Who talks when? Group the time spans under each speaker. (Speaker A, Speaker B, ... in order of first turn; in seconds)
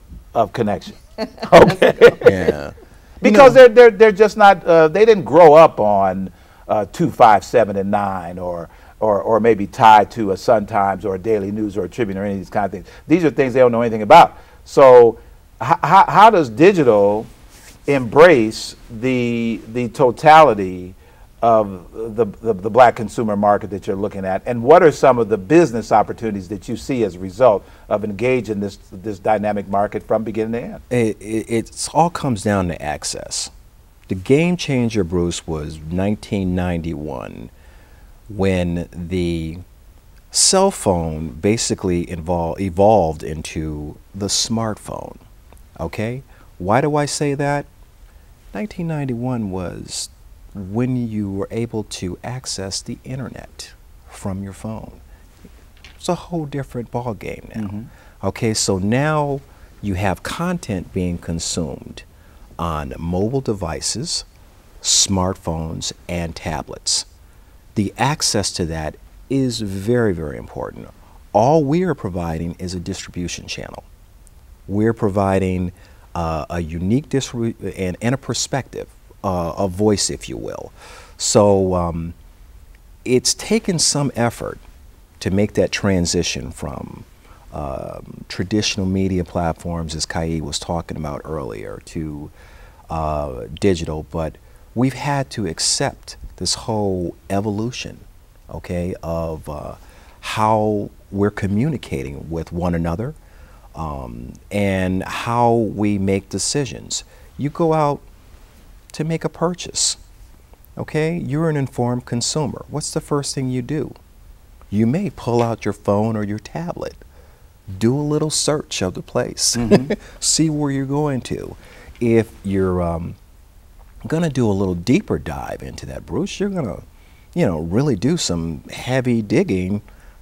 Speaker A: 0.3-2.5, 3.2-17.3, 17.9-30.8, 57.5-57.9, 119.5-119.9
Speaker B: 2.2-3.6, 30.9-33.5, 34.1-37.5, 38.3-39.6, 40.3-45.2, 45.8-47.7, 48.5-55.0, 56.0-62.0, 62.6-64.2, 64.8-67.0, 67.7-73.8, 74.7-82.2, 83.0-84.6, 85.2-92.3, 92.9-103.2, 103.7-108.0, 108.9-110.0, 110.8-113.9, 114.7-117.0, 117.7-123.2, 124.0-126.8, 127.3-129.8